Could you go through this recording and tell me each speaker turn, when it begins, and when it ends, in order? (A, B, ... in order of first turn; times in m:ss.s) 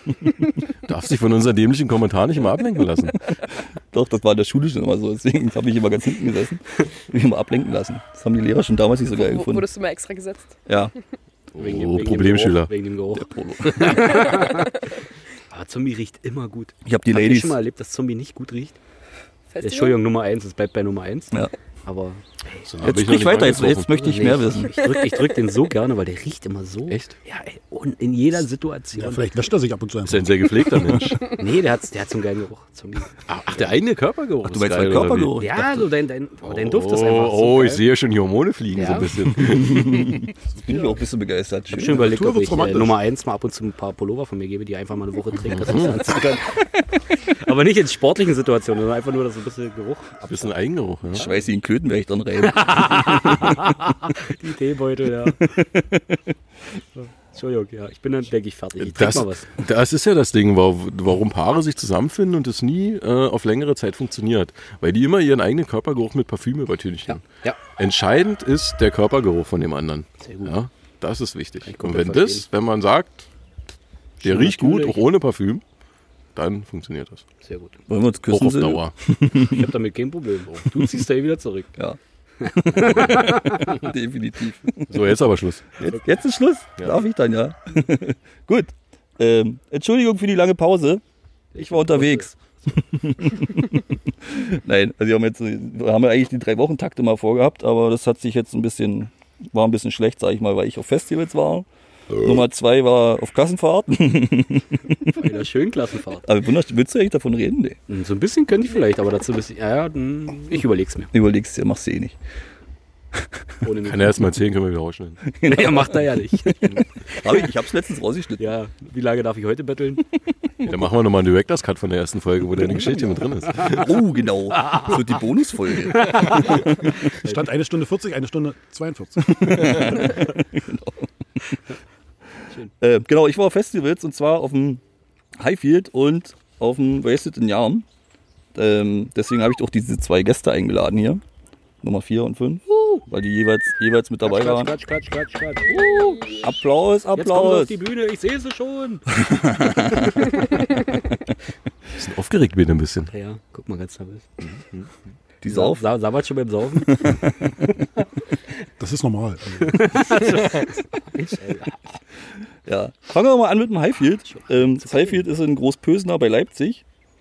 0:00.9-0:03.2 A
0:03.9-0:09.6 B
0:09.2-0:10.6 C
0:10.7-0:10.9 B
0:11.6-0:12.7 A
0:11.6-0:14.8 D
0:13.2-0:14.4 B
0:15.5-0:18.8 D
0:16.8-0:17.6 B
0:19.5-0:20.0 C
0:19.6-0:21.3 D
0:21.8-0:22.9 D
0:22.6-0:24.2 A
0:22.8-0:24.8 B
0:23.9-0:29.4 D
0:29.0-0:30.4 E
0:30.0-0:31.4 A
0:31.2-0:33.6 D
0:33.3-0:35.4 A
0:34.4-0:35.8 B
0:35.4-0:37.9 D
0:36.4-0:40.2 A
0:38.7-0:39.2 D
0:39.6-0:42.1 B
0:41.7-0:46.7 D
0:41.9-0:43.0 E
0:47.2-0:50.5 D
0:50.2-0:51.3 A
0:51.1-0:53.7 B
0:52.4-0:55.6 D
0:55.5-0:56.2 B
0:57.3-0:59.5 D
0:58.8-1:13.3 A
1:07.1-1:07.6 D
1:10.2-1:10.5 D
1:11.6-1:12.5 D
1:14.2-1:15.0 D
1:14.2-1:15.6 A
1:16.4-1:17.2 A
1:17.4-1:17.8 D
1:17.9-1:19.6 B
1:18.3-1:19.0 A
1:19.3-1:21.7 D
1:21.8-1:24.9 B
1:22.4-1:23.8 D
1:24.9-1:25.6 A
1:25.8-1:31.0 B
1:31.6-1:32.3 D
1:31.6-1:45.2 B
1:45.2-1:46.3 D
1:46.3-1:47.8 B
1:47.9-1:51.1 D
1:51.1-1:52.2 B
1:53.6-1:54.4 D
1:53.8-1:55.2 A
1:55.3-1:56.1 B
1:55.4-1:57.5 D
1:57.1-1:58.5 B
1:58.4-2:00.1 D
2:00.6-2:03.9 A
2:02.8-2:03.8 D
2:03.6-2:07.0 B
2:06.0-2:06.6 D
2:07.2-2:09.6 E
2:09.2-2:11.6 B
2:12.8-2:14.8 B
2:15.4-2:17.8 B
2:18.6-2:21.2 B
2:21.8-2:24.7 B
2:22.7-2:23.0 D
2:24.2-2:26.4 D
2:25.8-2:26.4 C
2:26.4-2:27.7 B
2:27.2-2:29.2 D
2:29.2-2:30.2 B
2:32.0-2:33.1 A
2:33.1-2:34.5 D
2:34.5-2:34.9 A
2:35.4-2:35.9 B
2:35.5-2:37.3 D
2:36.9-2:37.3 B
2:38.8-2:39.8 E
2:39.6-2:41.8 D
2:42.7-2:46.8 B
2:44.3-2:45.2 D